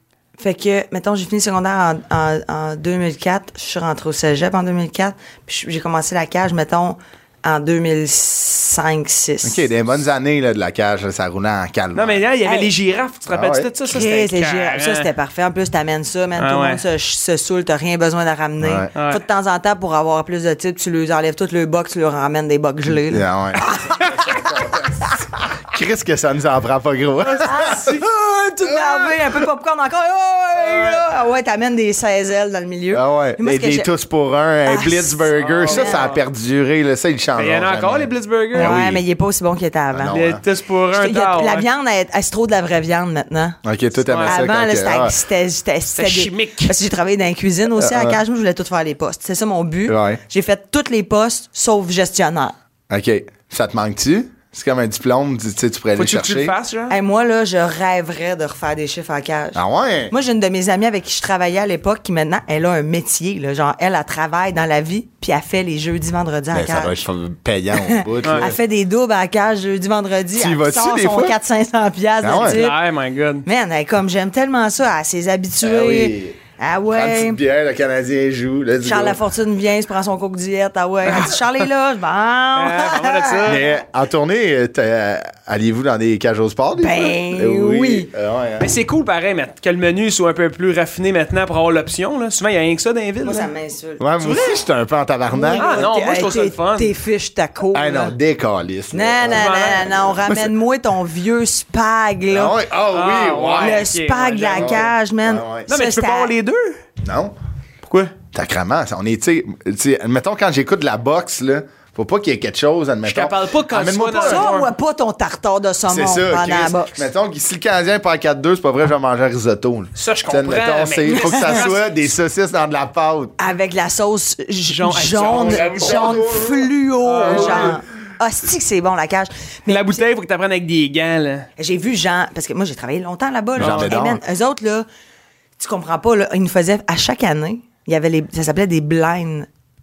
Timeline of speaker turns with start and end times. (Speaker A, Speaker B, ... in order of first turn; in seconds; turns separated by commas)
Speaker A: 0.4-9.6, Speaker B: 9.4-12.2, Speaker C: 11.9-15.1, Speaker A: 12.4-12.7, Speaker B: 13.3-13.7, Speaker A: 13.9-25.1, Speaker C: 16.4-16.8, Speaker B: 18.6-18.9, Speaker C: 18.9-19.2, Speaker B: 23.1-25.0, Speaker B: 25.6-29.2, Speaker A: 27.3-33.9, Speaker C: 27.4-27.9, Speaker B: 30.7-31.0, Speaker B: 32.9-39.0, Speaker A: 34.6-36.1, Speaker C: 35.3-36.2, Speaker C: 37.4-38.8, Speaker A: 38.5-40.1, Speaker B: 39.9-40.4, Speaker C: 40.1-41.6, Speaker A: 40.9-43.6, Speaker B: 43.6-45.1, Speaker C: 44.1-44.4, Speaker A: 44.2-52.6, Speaker C: 45.9-46.7, Speaker B: 47.8-48.2, Speaker B: 49.9-50.2, Speaker B: 52.9-56.5, Speaker C: 56.0-56.9, Speaker A: 56.9-67.0, Speaker B: 59.5-60.1, Speaker B: 66.5-68.6, Speaker A: 67.8-72.8, Speaker C: 68.2-68.5, Speaker B: 70.3-71.4, Speaker B: 72.2-72.6, Speaker C: 72.4-73.4, Speaker A: 73.4-77.4, Speaker B: 75.6-76.4, Speaker B: 76.9-79.2, Speaker A: 78.8-83.6, Speaker C: 82.6-83.7, Speaker B: 83.5-88.7, Speaker A: 86.8-88.1, Speaker C: 88.6-93.5, Speaker A: 93.2-94.7, Speaker B: 94.0-95.9, Speaker A: 95.3-98.2, Speaker C: 95.5-96.9, Speaker B: 97.7-100.5, Speaker A: 98.9-102.6, Speaker C: 99.3-100.1, Speaker B: 102.3-103.8, Speaker C: 102.9-104.9, Speaker A: 103.6-106.3, Speaker B: 104.5-105.7, Speaker C: 105.7-106.8, Speaker B: 107.0-107.3, Speaker C: 107.8-108.1, Speaker B: 108.3-114.5, Speaker C: 113.0-114.7, Speaker A: 114.2-117.0, Speaker B: 115.9-123.3, Speaker C: 119.9-121.8, Speaker A: 121.1-121.6, Speaker A: 123.4-130.0, Speaker C: 124.7-126.2, Speaker B: 125.2-126.7, Speaker C: 127.0-127.8, Speaker B: 127.3-127.7, Speaker C: 129.7-131.5, Speaker A: 131.6-134.8, Speaker B: 133.6-134.2, Speaker C: 133.6-134.0, Speaker A: 135.6-139.5